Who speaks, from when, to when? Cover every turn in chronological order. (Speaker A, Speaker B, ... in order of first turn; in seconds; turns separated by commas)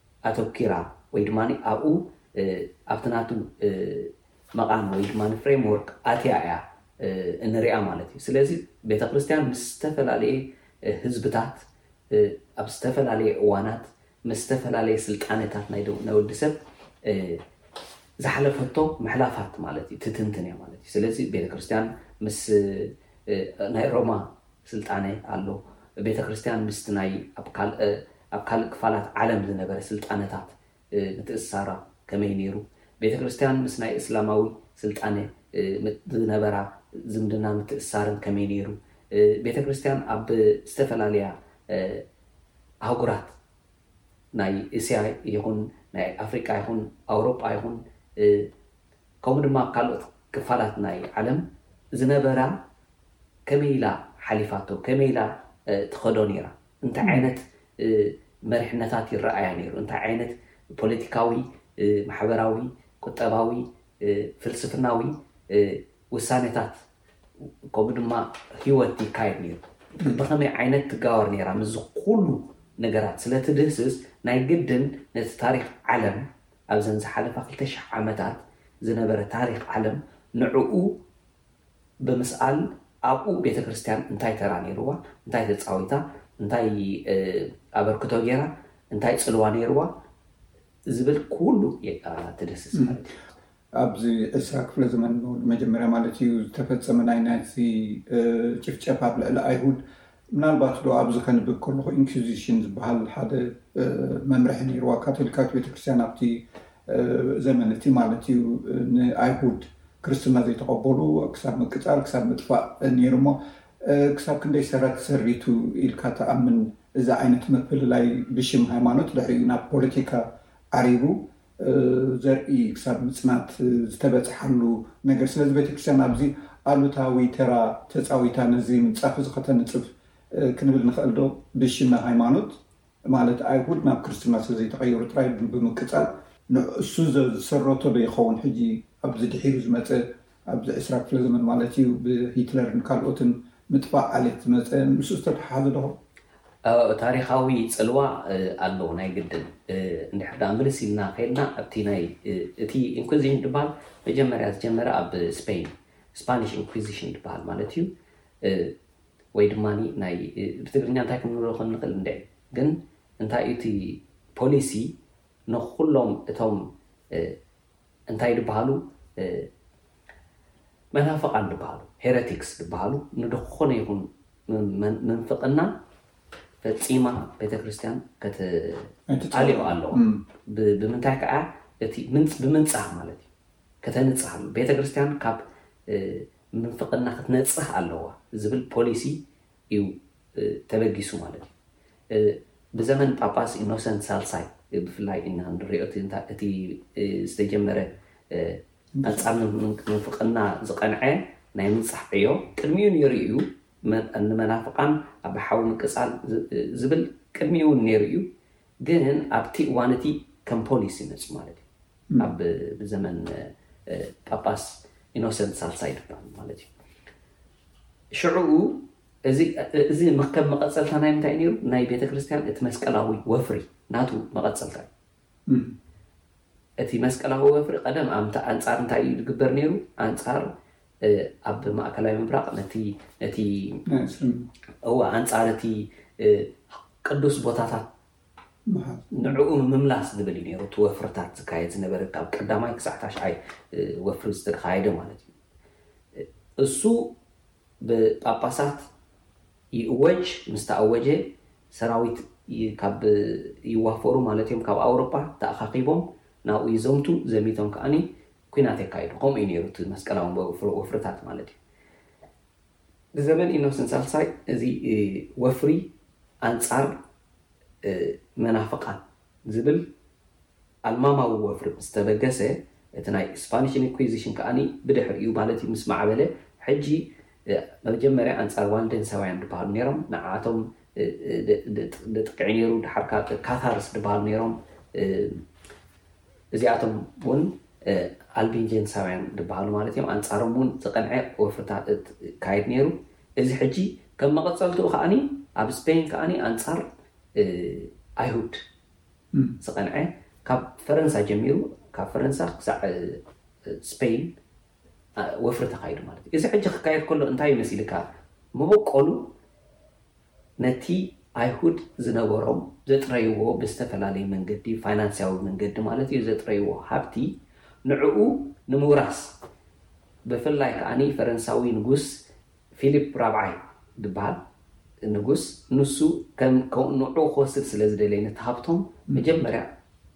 Speaker A: 0.2-17.4, Speaker A: 18.2-42.0, Speaker A: 42.8-43.4, Speaker A: 44.4-48.5, Speaker A: 49.2-52.6, Speaker A: 53.5-66.8, Speaker B: 57.0-57.3, Speaker A: 67.7-81.0, Speaker A: 82.0-90.0, Speaker A: 90.9-93.2, Speaker B: 93.7-146.0, Speaker A: 146.7-158.8, Speaker A: 159.3-164.9, Speaker A: 165.5-167.4, Speaker A: 168.1-169.5, Speaker A: 170.9-175.7, Speaker A: 176.6-183.3, Speaker B: 179.1-180.2, Speaker A: 183.8-191.5, Speaker A: 192.1-208.3, Speaker B: 199.0-199.2, Speaker A: 208.8-211.6, Speaker A: 212.2-216.7, Speaker A: 218.1-224.9, Speaker B: 225.5-225.8, Speaker A: 226.8-233.8, Speaker B: 233.9-234.5, Speaker A: 234.8-237.9, Speaker B: 238.7-239.4, Speaker A: 239.1-245.3, Speaker A: 246.2-247.2, Speaker A: 247.8-248.9, Speaker A: 249.7-261.6, Speaker A: 263.1-265.9, Speaker A: 266.4-267.0, Speaker A: 267.8-269.9, Speaker A: 270.9-285.4, Speaker A: 286.5-298.6, Speaker A: 299.6-304.4, Speaker A: 305.2-309.4, Speaker A: 310.6-319.4, Speaker A: 320.3-324.4, Speaker A: 325.0-329.7